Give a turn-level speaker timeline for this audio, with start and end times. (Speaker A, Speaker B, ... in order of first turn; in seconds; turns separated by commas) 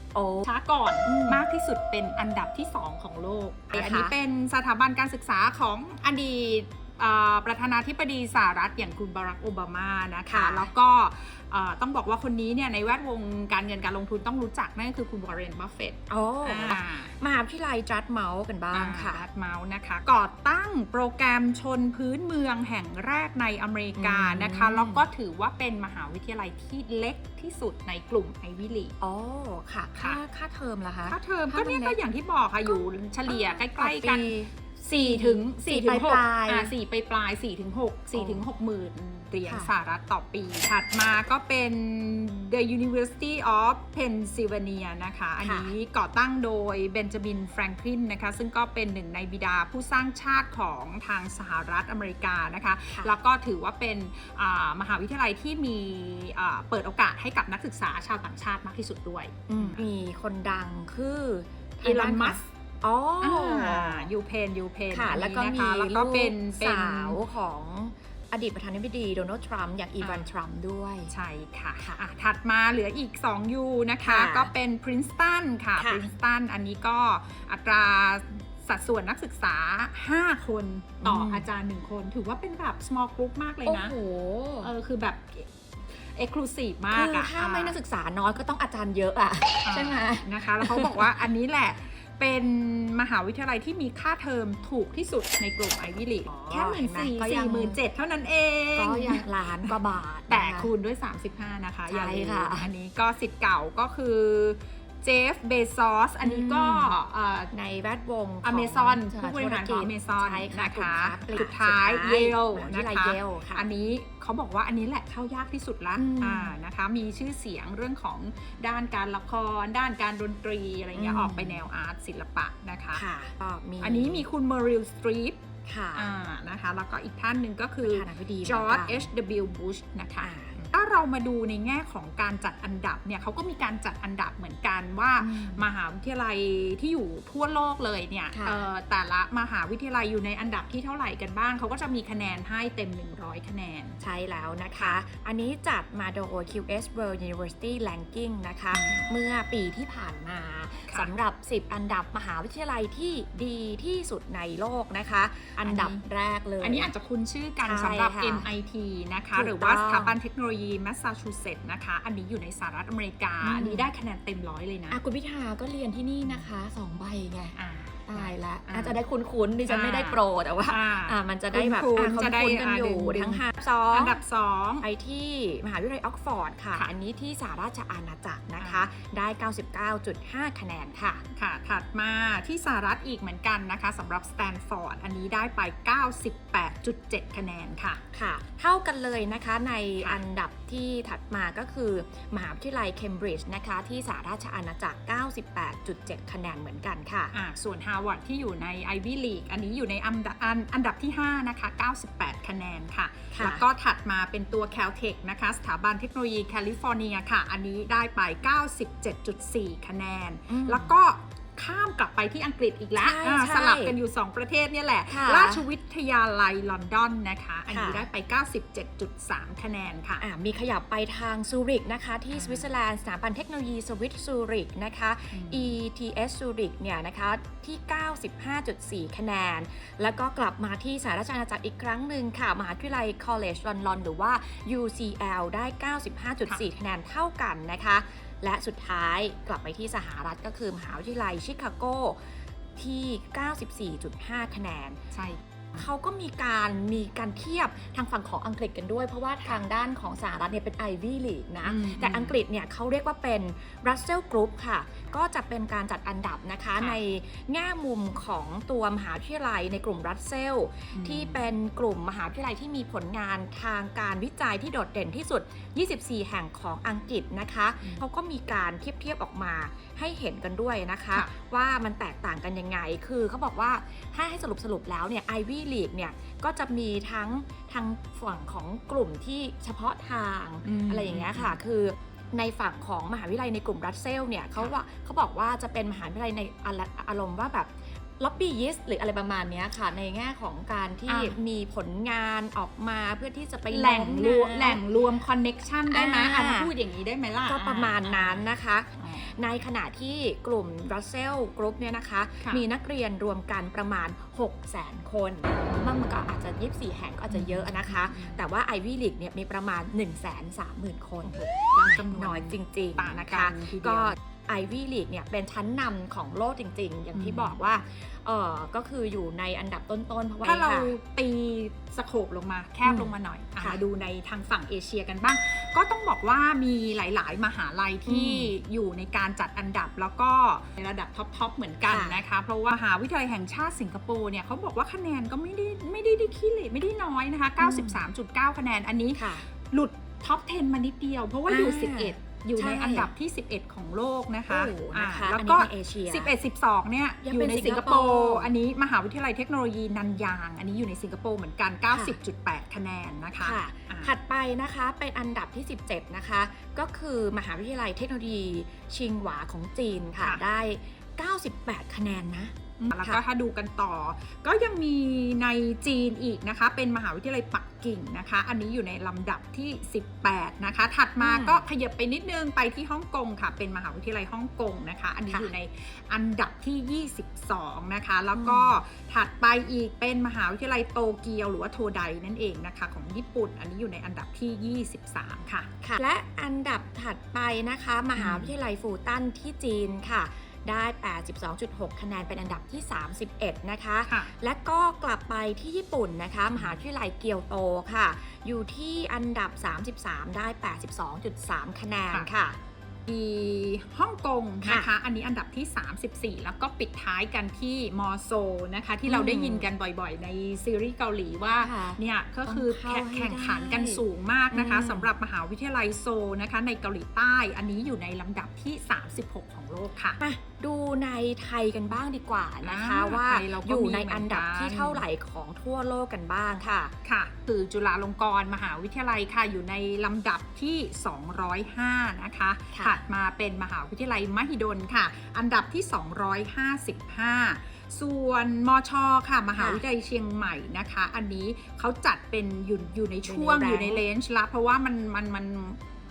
Speaker A: 0.1-0.5, Speaker B: 0.4-17.1, Speaker A: 1.0-1.4, Speaker A: 3.7-4.1, Speaker A: 10.3-10.7, Speaker A: 16.1-19.2, Speaker B: 18.7-28.9, Speaker A: 24.0-25.1, Speaker A: 29.0-32.0, Speaker B: 31.1-59.8, Speaker A: 32.6-36.7, Speaker A: 38.1-38.4, Speaker A: 39.5-39.7, Speaker A: 45.4-45.7, Speaker A: 52.9-53.2, Speaker A: 59.5-64.1, Speaker B: 61.8-62.5, Speaker B: 63.2-67.2, Speaker A: 64.9-71.1, Speaker B: 70.0-70.3, Speaker B: 71.1-83.9, Speaker A: 71.8-72.0, Speaker A: 74.0-74.5, Speaker A: 75.8-76.1, Speaker A: 81.0-81.5, Speaker A: 83.6-84.7, Speaker B: 84.6-87.8, Speaker A: 86.9-91.0, Speaker B: 89.6-107.5, Speaker A: 96.2-97.8, Speaker A: 98.8-100.7, Speaker A: 101.9-102.7, Speaker A: 106.2-107.0, Speaker A: 107.5-113.7, Speaker B: 108.4-123.0, Speaker A: 116.0-116.5, Speaker A: 120.9-121.7, Speaker A: 122.9-124.2, Speaker B: 123.8-125.4, Speaker A: 125.7-126.1, Speaker B: 125.9-144.0, Speaker A: 127.8-129.1, Speaker A: 130.2-130.6, Speaker A: 135.2-135.6, Speaker A: 138.3-138.7, Speaker A: 144.0-156.9, Speaker B: 148.7-149.1, Speaker B: 155.6-156.0, Speaker B: 156.6-165.0, Speaker A: 157.6-158.5, Speaker A: 159.3-160.2, Speaker A: 163.4-163.9, Speaker A: 164.9-174.2, Speaker B: 167.6-169.0, Speaker B: 169.6-174.8, Speaker A: 174.8-181.2, Speaker B: 178.6-178.9, Speaker B: 181.3-188.0, Speaker A: 188.1-197.3, Speaker B: 197.3-220.2, Speaker A: 203.3-203.6, Speaker A: 210.5-210.9, Speaker A: 212.9-213.9, Speaker A: 215.1-215.7, Speaker A: 217.7-218.0, Speaker A: 220.2-245.0, Speaker B: 222.3-222.7, Speaker B: 225.3-225.7, Speaker B: 245.1-245.4, Speaker A: 245.8-294.8, Speaker B: 251.6-252.4, Speaker B: 260.9-261.4, Speaker B: 280.6-281.6, Speaker B: 291.1-291.4, Speaker B: 293.7-298.4, Speaker A: 295.9-296.7, Speaker A: 297.4-320.9, Speaker B: 299.0-299.3, Speaker B: 307.3-308.4, Speaker B: 311.5-314.1, Speaker B: 317.1-317.6, Speaker B: 320.4-354.1, Speaker A: 322.8-323.8, Speaker A: 328.1-328.5, Speaker A: 331.9-332.2, Speaker A: 337.6-338.0, Speaker A: 339.1-339.4, Speaker A: 341.5-343.1, Speaker A: 344.5-346.3, Speaker A: 347.2-348.5, Speaker A: 353.4-363.2, Speaker B: 360.2-360.4, Speaker B: 362.8-385.7, Speaker A: 371.2-371.6, Speaker A: 378.4-378.8, Speaker A: 385.8-402.6, Speaker B: 388.1-388.5, Speaker B: 403.1-420.2, Speaker A: 404.6-404.9, Speaker A: 409.1-409.6, Speaker A: 411.5-415.1, Speaker A: 420.2-426.9, Speaker B: 422.6-425.0, Speaker B: 427.0-445.8, Speaker A: 432.7-433.0, Speaker A: 439.6-439.8, Speaker A: 443.2-444.0